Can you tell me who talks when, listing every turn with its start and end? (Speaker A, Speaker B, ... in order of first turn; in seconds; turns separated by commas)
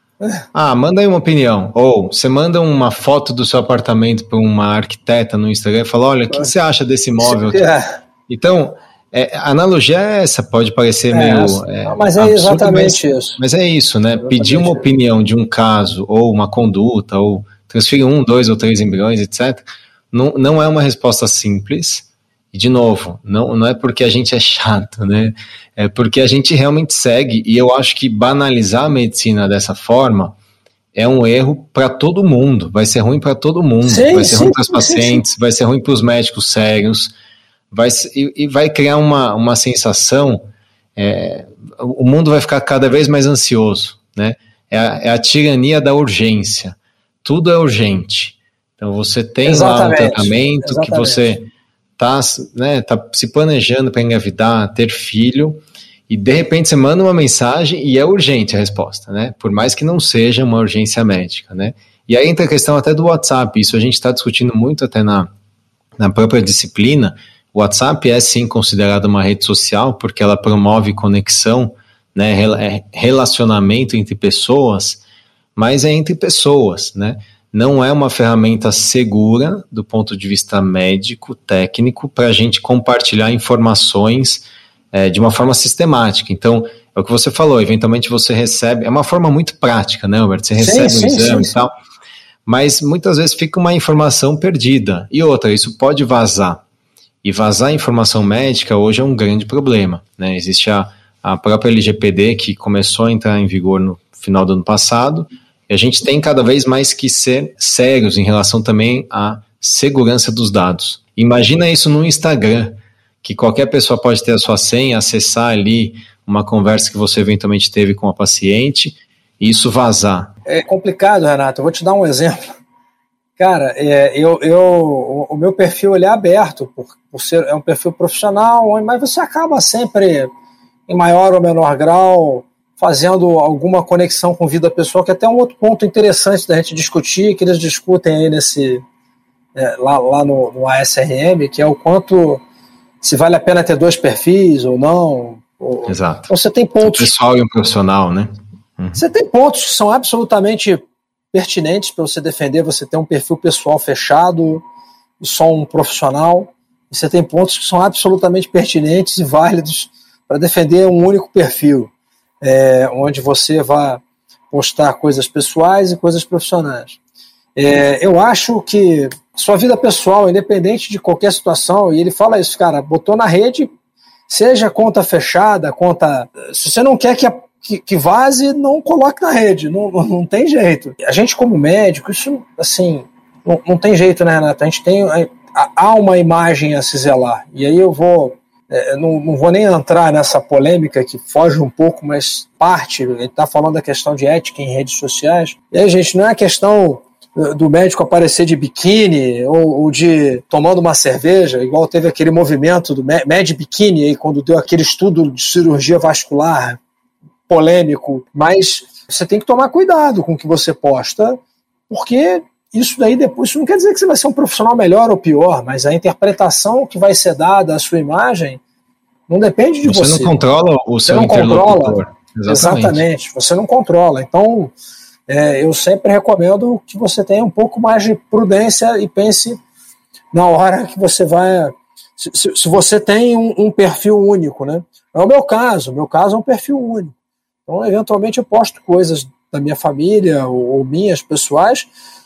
Speaker A: 0.5-7.6, Speaker B: 7.2-7.9, Speaker A: 8.3-30.4, Speaker B: 11.1-13.4, Speaker B: 14.2-14.8, Speaker A: 30.9-37.1, Speaker B: 33.9-35.2, Speaker A: 37.7-40.5, Speaker A: 41.0-51.5, Speaker B: 49.5-51.4, Speaker A: 52.0-65.3, Speaker A: 66.0-75.0, Speaker A: 75.6-91.7, Speaker B: 90.6-91.6, Speaker A: 92.5-96.6, Speaker A: 97.2-120.3, Speaker B: 120.5-122.6, Speaker B: 123.4-130.3, Speaker B: 130.9-138.8, Speaker B: 139.6-142.4, Speaker B: 143.0-147.1, Speaker A: 145.9-149.0, Speaker B: 148.9-154.6, Speaker B: 155.2-167.0, Speaker B: 167.6-173.7, Speaker B: 174.3-206.8, Speaker B: 207.5-218.6, Speaker B: 219.3-220.3, Speaker A: 219.8-223.0, Speaker B: 221.1-224.7, Speaker B: 225.3-229.6, Speaker B: 230.3-237.1, Speaker B: 237.7-241.9